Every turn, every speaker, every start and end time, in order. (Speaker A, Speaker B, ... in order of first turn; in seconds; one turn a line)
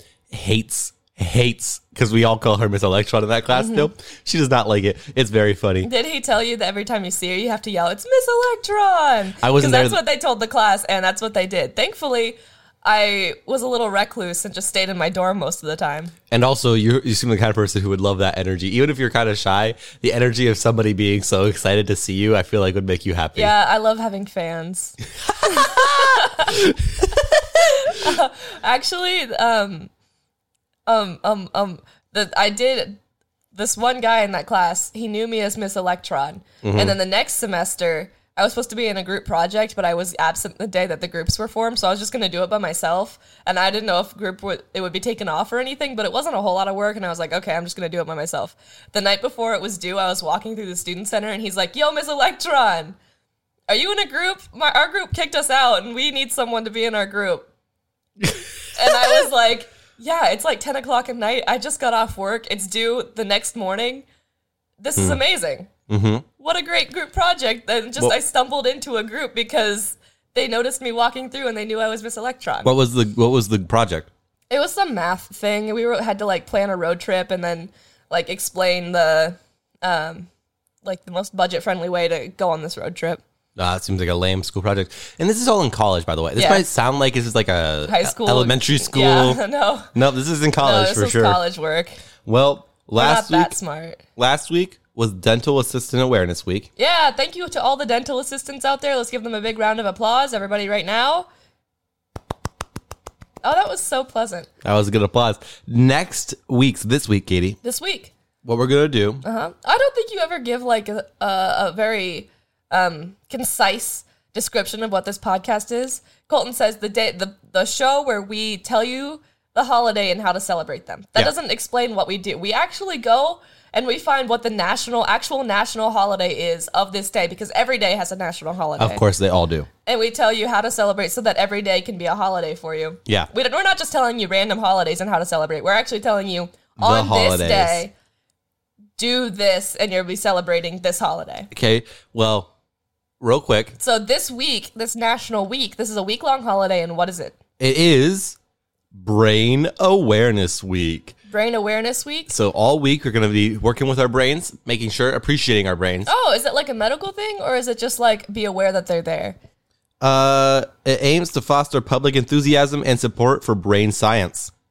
Speaker A: 0.3-5.9
Speaker B: 3.5-3.9
Speaker B: 5.8-16.1
Speaker A: 9.4-10.0
Speaker A: 16.3-23.5
Speaker B: 23.4-26.6
Speaker A: 25.3-27.4
Speaker B: 27.6-29.9
Speaker B: 30.9-33.0
Speaker B: 33.5-53.0
Speaker A: 36.6-37.0
Speaker B: 53.7-57.5
Speaker A: 58.2-59.2
Speaker B: 58.8-64.1
Speaker B: 64.8-65.7
Speaker A: 65.9-66.2
Speaker B: 66.4-72.7
Speaker A: 72.6-74.1
Speaker B: 74.5-80.3
Speaker B: 80.8-83.2
Speaker A: 83.6-89.4
Speaker B: 86.4-86.7
Speaker B: 87.9-89.9
Speaker A: 89.9-91.4
Speaker B: 90.6-92.0
Speaker A: 92.2-93.6
Speaker B: 93.0-94.0
Speaker A: 94.2-96.7
Speaker B: 96.8-101.3
Speaker B: 103.4-104.5
Speaker A: 104.6-107.6
Speaker B: 107.6-108.1
Speaker A: 108.4-109.2
Speaker B: 109.2-129.0
Speaker A: 128.8-129.7
Speaker B: 129.9-137.9
Speaker A: 136.8-137.8
Speaker B: 139.0-141.5
Speaker A: 141.5-142.5
Speaker A: 143.2-143.8
Speaker B: 143.8-147.4
Speaker A: 147.6-148.4
Speaker A: 148.9-151.2
Speaker B: 151.3-152.3
Speaker A: 152.3-156.1
Speaker B: 156.1-159.4
Speaker A: 160.0-164.5